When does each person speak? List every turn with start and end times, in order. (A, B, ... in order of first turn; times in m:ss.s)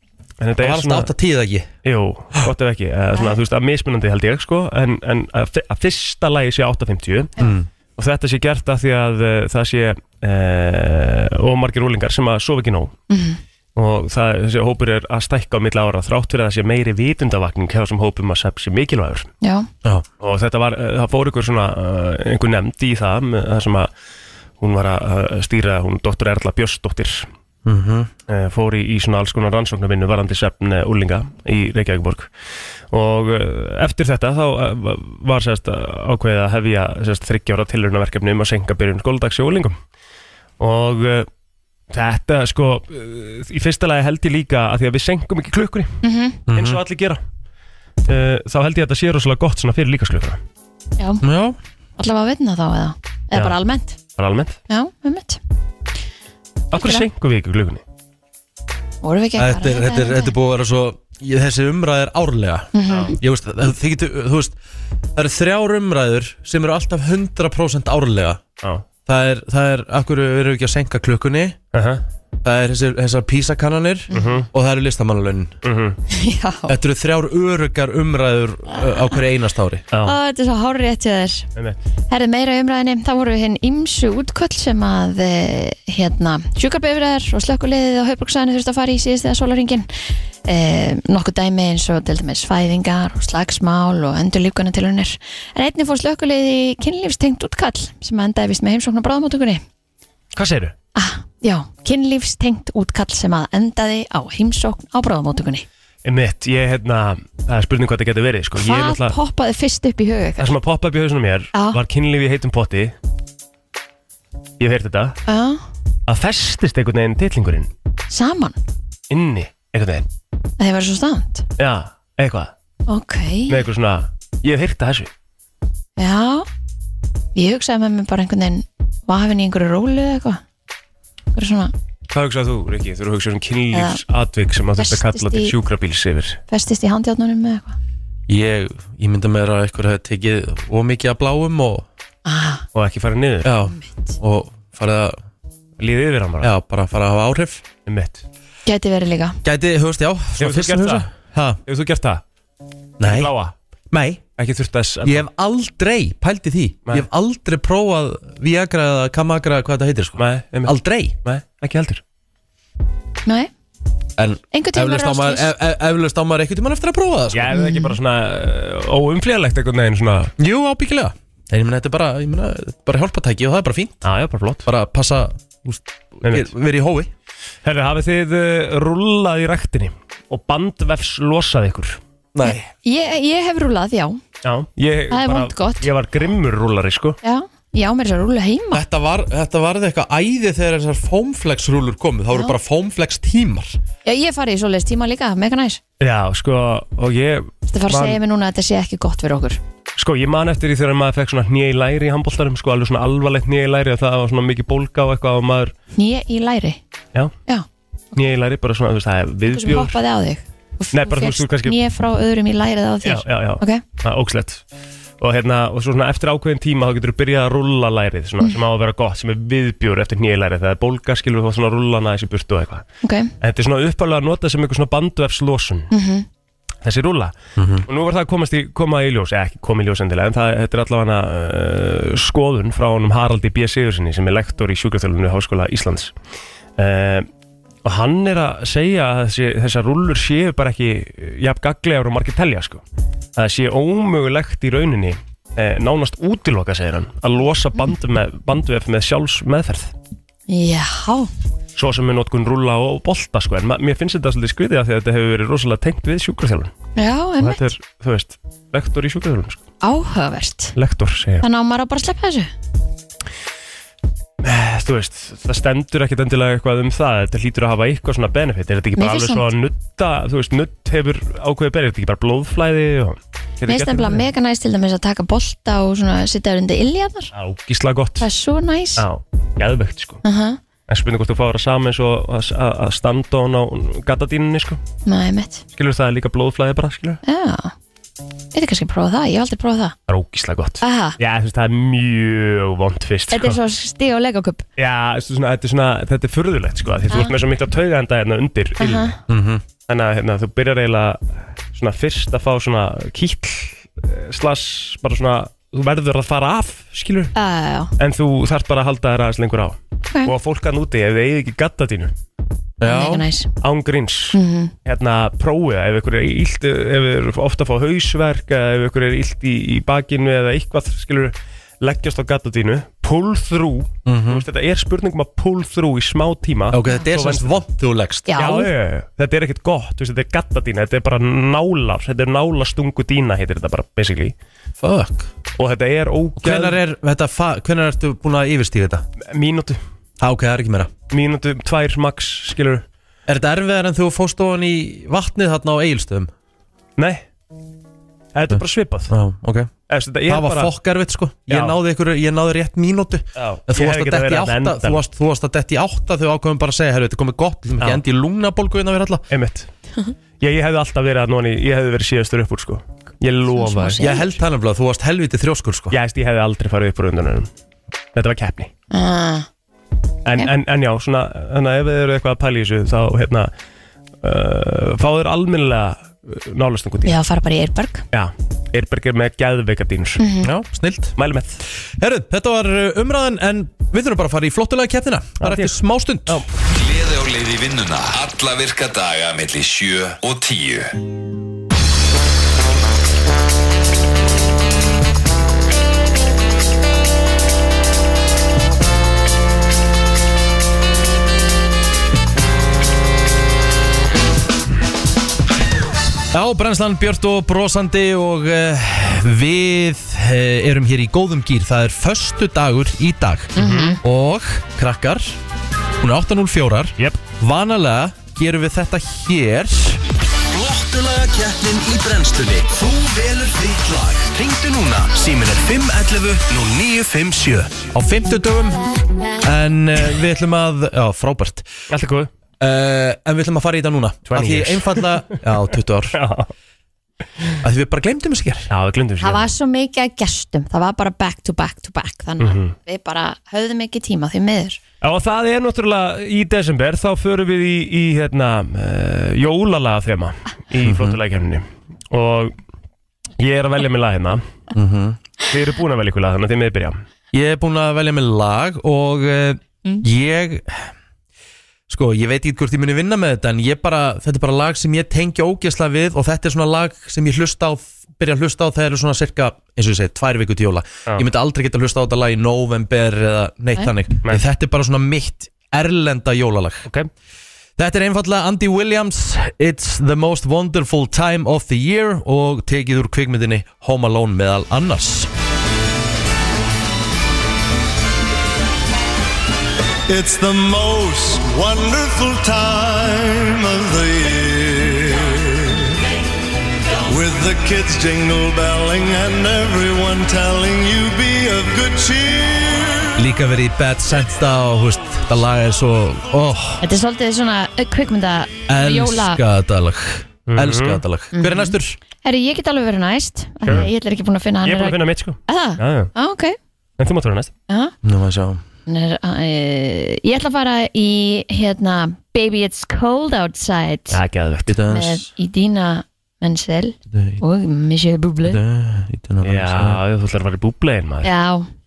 0:00.4-0:01.1 A
0:00.6-0:01.7 B
0:01.8-0:07.3 A
0:07.4-0:07.7 B
0:08.0-0:13.0 A
0:13.1-0:13.4 C
0:13.8-0:19.3 A
0:19.4-0:19.7 C
0:20.2-0:23.9 A
0:24.6-0:27.3 A
0:27.6-0:28.1 B
0:28.3-0:32.3 A
0:32.9-0:39.8 A
0:40.6-0:41.3 A
0:41.9-0:46.0 A
0:46.0-0:46.4 C
0:46.5-0:46.8 B
0:46.5-0:47.2 A
0:48.1-0:50.4 A
0:51.2-0:51.6 B
0:52.0-0:54.0 C
0:54.2-0:54.6 A
0:54.7-0:55.4 C
0:56.7-0:57.8 A
0:56.7-0:57.0 C
0:59.0-1:00.3 C
0:59.4-1:04.6 B
1:02.7-1:03.2 C
1:05.2-1:08.4 B
1:09.1-1:11.6 B
1:11.7-1:12.0 A
1:12.4-1:15.6 B
1:14.1-1:14.4 C
1:14.1-1:14.5 A
1:15.6-1:16.0 A
1:16.1-1:16.8 C
1:16.7-1:19.8 B
1:20.0-1:21.5 C
1:22.1-1:29.9 C
1:30.5-1:39.6 C
1:40.4-1:40.7 A
1:41.0-1:45.7 C
1:46.0-1:49.2 A
1:48.6-1:50.5 C
1:50.4-1:53.0 A
1:51.5-1:51.8 C
1:54.6-1:55.2 A
1:55.3-1:55.6 C
1:56.1-1:57.7 A
1:58.1-1:58.6 C
1:59.1-2:00.1 A
2:00.6-2:01.4 C
2:01.6-2:02.5 A
2:02.9-2:03.6 C
2:03.5-2:05.1 A
2:06.0-2:06.5 C
2:07.4-2:10.4 C
2:11.4-2:11.7 C
2:12.1-2:16.4 A
2:13.7-2:14.0 C
2:14.8-2:15.5 C
2:16.5-2:17.8 C
2:18.3-2:21.9 B
2:22.3-2:22.7 C
2:22.8-2:23.5 A
2:23.4-2:25.2 B
2:23.7-2:24.1 C
2:25.8-2:26.5 A
2:26.4-2:27.6 B
2:27.9-2:28.2 A
2:28.7-2:29.4 C
2:29.4-2:31.6 B
2:30.4-2:31.1 A
2:31.7-2:32.2 A
2:33.0-2:33.3 B
2:33.0-2:33.5 A
2:33.9-2:34.2 B
2:34.4-2:35.3 A
2:35.0-2:41.2 B
2:40.2-2:42.0 A
2:44.2-2:47.5 B
2:44.5-2:45.5 C
2:47.3-2:50.3 A
2:47.5-2:47.9 C
2:50.4-2:54.0 B
2:54.0-2:54.7 A
2:54.6-2:57.1 B
2:56.2-2:56.5 A
2:57.6-3:02.0 A
3:02.3-3:02.6 B
3:02.4-3:04.2 C
3:04.4-3:07.2 A
3:05.1-3:05.9 C
3:07.2-3:08.8 C
3:08.7-3:13.8 B
3:14.0-3:15.8 C
3:16.0-3:18.2 A
3:17.7-3:19.6 C
3:20.0-3:25.7 A
3:26.0-3:26.8 C
3:28.1-3:30.0 A
3:29.5-3:33.8 C
3:30.9-3:31.8 A
3:33.0-3:34.6 A
3:35.2-3:42.8 A
3:43.0-3:43.3 C
3:43.4-3:45.9 A
3:45.9-3:46.3 C
3:46.8-3:47.3 A
3:47.6-3:47.9 B
3:47.9-3:56.1 A
3:56.8-3:57.3 A
3:57.8-4:02.8 A
4:03.4-4:09.9 A
4:10.5-4:11.3 C
4:11.8-4:16.7 A
4:17.0-4:17.6 C
4:17.4-4:19.6 A
4:19.8-4:20.7 C
4:20.8-4:21.4 A
4:21.4-4:22.5 C
4:24.4-4:34.3 A
4:29.0-4:29.4 C
4:33.7-4:37.3 C
4:37.3-4:38.3 A
4:38.2-4:39.0 C
4:39.0-4:40.2 A
4:40.2-4:40.6 C
4:40.9-4:44.8 A
4:45.1-4:45.6 C
4:45.7-4:47.2 A
4:47.2-4:47.7 C
4:48.5-4:49.9 C
4:50.1-4:53.6 A
4:50.8-4:51.2 C
4:53.3-4:54.6 C
4:54.8-4:59.2 A
4:58.8-4:59.1 C
4:59.3-4:59.6 B
4:59.9-5:07.3 A
5:07.4-5:07.9 C
5:08.0-5:12.1 A
5:12.8-5:13.3 B
5:12.8-5:13.5 C
5:13.6-5:27.7 A
5:14.3-5:14.7 C
5:24.1-5:24.4 B
5:26.7-5:28.3 B
5:28.3-5:28.7 C
5:28.4-5:34.4 A
5:34.8-5:35.3 B
5:35.6-5:36.8 A
5:36.4-5:39.0 B
5:39.3-5:39.8 A
5:40.2-5:40.9 B
5:41.1-5:42.8 A
5:43.3-5:46.3 B
5:47.0-5:47.2 A
5:48.4-5:49.1 A
5:48.5-5:49.7 B
5:49.9-5:50.7 A
5:50.3-5:59.2 B
5:51.5-5:51.8 A
5:53.4-5:55.0 A
5:59.3-5:59.7 A
6:00.4-6:04.0 A
6:03.5-6:04.3 C
6:04.0-6:06.0 B
6:05.9-6:07.5 A
6:08.2-6:08.7 A
6:08.9-6:09.5 C
6:10.2-6:13.5 A
6:14.2-6:17.2 A
6:17.1-6:18.0 C
6:18.1-6:20.2 A
6:20.2-6:20.5 C
6:20.4-6:21.2 B
6:21.2-6:21.6 A
6:22.0-6:26.4 B
6:25.4-6:25.8 A
6:26.7-6:30.9 D
6:46.3-6:55.4 B
6:53.6-6:54.0 C
6:53.6-6:54.0 A
6:56.0-7:00.0 B
7:02.0-7:02.5 E
7:04.2-7:07.7 E
7:07.9-7:08.8 B
7:09.4-7:11.7 B
7:11.9-7:12.3 A
7:12.6-7:16.2 B
7:14.3-7:15.4 A
7:16.1-7:16.5 A
7:17.6-7:18.7 B
7:18.7-7:19.5 A
7:19.2-7:24.8 C
7:22.4-7:22.8 A
7:25.0-7:32.5 A
7:30.8-7:31.2 B
7:33.4-7:34.4 A
7:34.7-7:35.2 B
7:35.5-7:37.0 A
7:37.3-7:40.9 B
7:41.9-7:56.9 B
7:57.8-8:05.3 B
8:10.1-8:16.0 F
8:17.0-8:23.2 F
8:23.2-8:26.8 B
8:26.8-8:29.4 C
8:28.7-8:32.0 B
8:30.5-8:31.0 A
8:31.3-8:36.6 C
8:34.6-8:36.1 A
8:37.0-8:37.5 A
8:37.7-8:37.9 C
8:38.0-8:38.6 B
8:38.9-8:44.2 C
8:44.1-8:44.8 A
8:44.7-8:45.3 B
8:44.9-8:48.6 C
8:47.1-8:47.4 B
8:48.4-8:50.0 B
8:49.4-8:51.3 A
8:51.2-8:51.7 C